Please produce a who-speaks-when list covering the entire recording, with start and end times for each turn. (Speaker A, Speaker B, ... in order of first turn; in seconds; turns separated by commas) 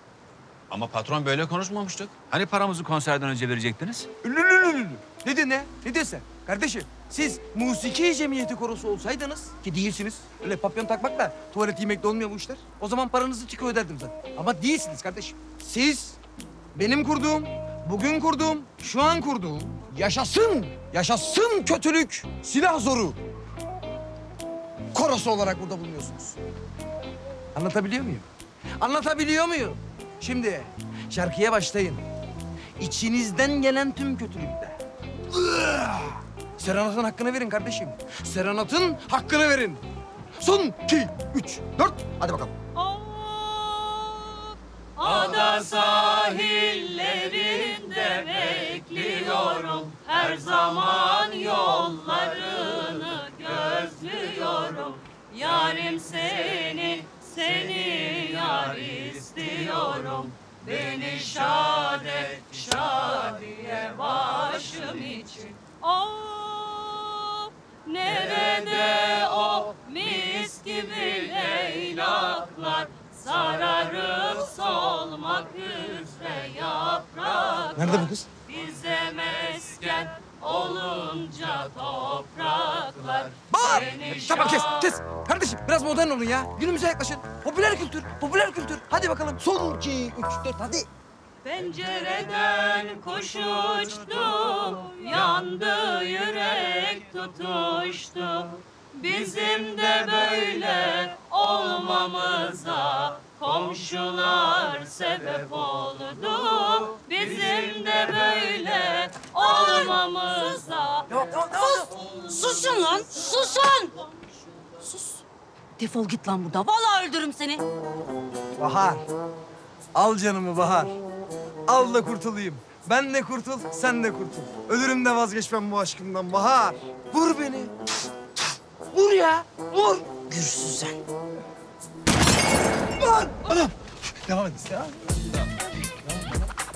Speaker A: 0.7-4.1, Speaker B: 4.2-16.2, Speaker B: 16.8-23.2, Speaker B: 24.9-26.4, Speaker B: 27.5-28.2, Speaker B: 28.8-32.0, Speaker B: 32.8-34.8, Speaker B: 35.3-39.8, Speaker B: 40.4-42.5, Speaker C: 42.8-85.0, Speaker B: 77.8-78.3, Speaker B: 83.5-90.9, Speaker C: 91.4-111.1, Speaker D: 109.6-109.9, Speaker B: 111.1-111.9, Speaker D: 111.6-113.9, Speaker D: 115.8-117.6, Speaker B: 118.6-119.0, Speaker B: 119.9-121.0, Speaker B: 121.7-127.7, Speaker B: 128.9-130.8, Speaker D: 130.3-130.9, Speaker B: 133.0-133.7, Speaker B: 134.2-135.1